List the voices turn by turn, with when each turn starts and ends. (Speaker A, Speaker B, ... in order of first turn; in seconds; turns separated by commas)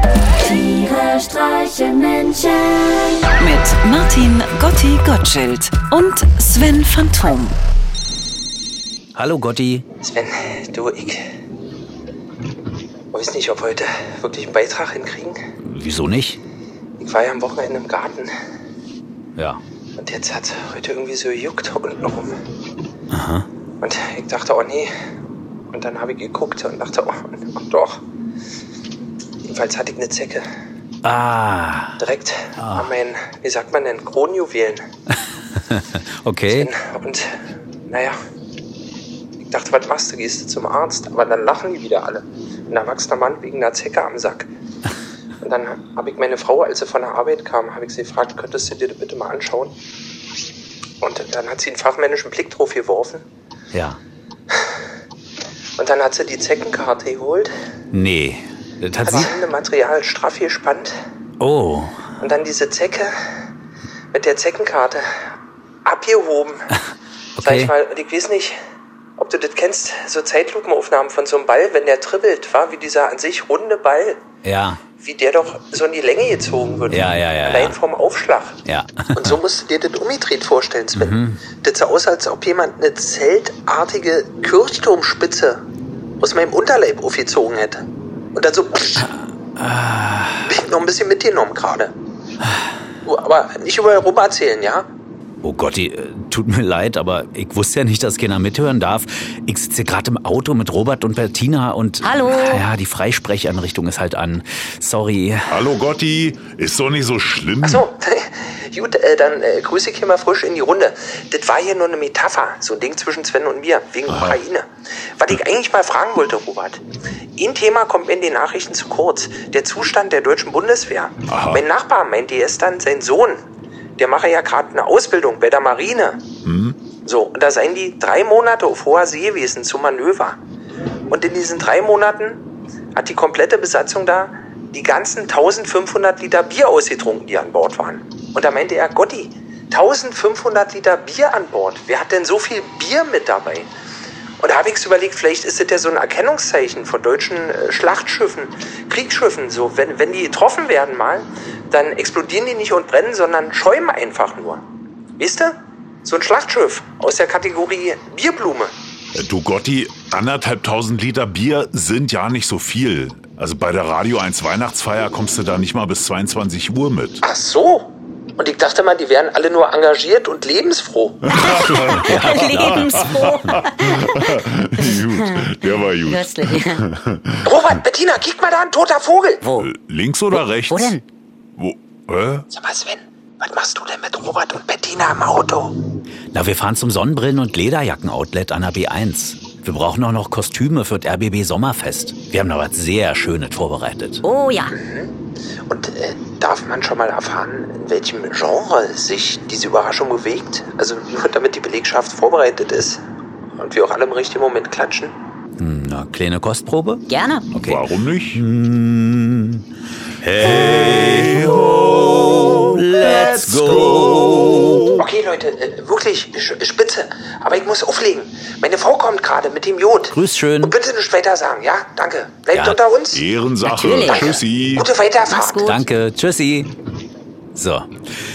Speaker A: 3.4-7.5, Speaker B: 9.1-9.8, Speaker C: 10.0-11.2, Speaker C: 13.1-15.4, Speaker B: 15.6-16.4, Speaker C: 17.0-18.3, Speaker C: 20.0-22.4, Speaker B: 23.1-23.4, Speaker C: 23.8-24.9, Speaker C: 25.7-28.0, Speaker C: 29.4-30.4, Speaker B: 31.0-32.0, Speaker C: 32.0-34.8, Speaker B: 32.6-32.9, Speaker B: 35.5-36.7, Speaker C: 36.5-37.3, Speaker C: 37.9-38.1, Speaker C: 39.5-44.5, Speaker C: 45.4-49.7, Speaker C: 51.0-53.2, Speaker B: 53.7-54.0, Speaker C: 55.8-57.5, Speaker B: 57.9-59.4, Speaker C: 59.0-61.0, Speaker B: 61.4-62.0, Speaker C: 62.2-63.1, Speaker C: 64.1-65.0, Speaker C: 65.8-66.7, Speaker B: 67.4-67.7, Speaker C: 67.4-68.5, Speaker C: 69.2-74.2, Speaker B: 74.4-74.8, Speaker C: 75.0-78.6, Speaker B: 76.9-77.8, Speaker B: 78.7-79.4, Speaker C: 79.2-85.6, Speaker B: 80.9-81.4, Speaker C: 86.2-89.1, Speaker B: 89.6-90.5, Speaker C: 90.5-91.9, Speaker C: 93.0-94.9, Speaker B: 95.4-105.7, Speaker D: 102.0-102.6, Speaker E: 105.5-107.9, Speaker C: 107.6-114.7, Speaker E: 114.1-114.4, Speaker C: 115.2-116.8, Speaker C: 117.4-123.4, Speaker E: 121.3-121.6, Speaker C: 124.0-126.2, Speaker E: 126.4-126.8, Speaker C: 127.0-130.4, Speaker C: 131.1-132.4, Speaker C: 132.9-143.7, Speaker C: 144.4-154.6, Speaker C: 155.2-158.7, Speaker E: 159.2-167.2, Speaker C: 167.2-171.9, Speaker E: 171.3-177.6, Speaker D: 171.7-174.2, Speaker B: 171.7-173.1, Speaker D: 174.9-175.4, Speaker D: 176.1-176.8, Speaker C: 177.4-179.4, Speaker D: 179.4-179.7, Speaker E: 179.5-181.0, Speaker D: 180.7-181.0, Speaker E: 181.6-182.5, Speaker C: 182.5-185.8, Speaker B: 186.3-194.2, Speaker D: 194.2-194.8, Speaker C: 194.7-195.1, Speaker C: 195.7-203.0, Speaker C: 203.6-205.1, Speaker B: 205.6-209.7, Speaker D: 207.1-207.5, Speaker E: 207.6-208.4, Speaker B: 210.2-214.9, Speaker E: 211.4-212.4, Speaker E: 213.0-214.7, Speaker C: 215.0-223.2, Speaker B: 220.1-220.8, Speaker B: 222.5-222.8, Speaker E: 223.1-224.9, Speaker D: 223.7-224.3, Speaker C: 224.0-225.7, Speaker D: 225.3-225.8, Speaker B: 225.6-226.7, Speaker B: 227.5-227.9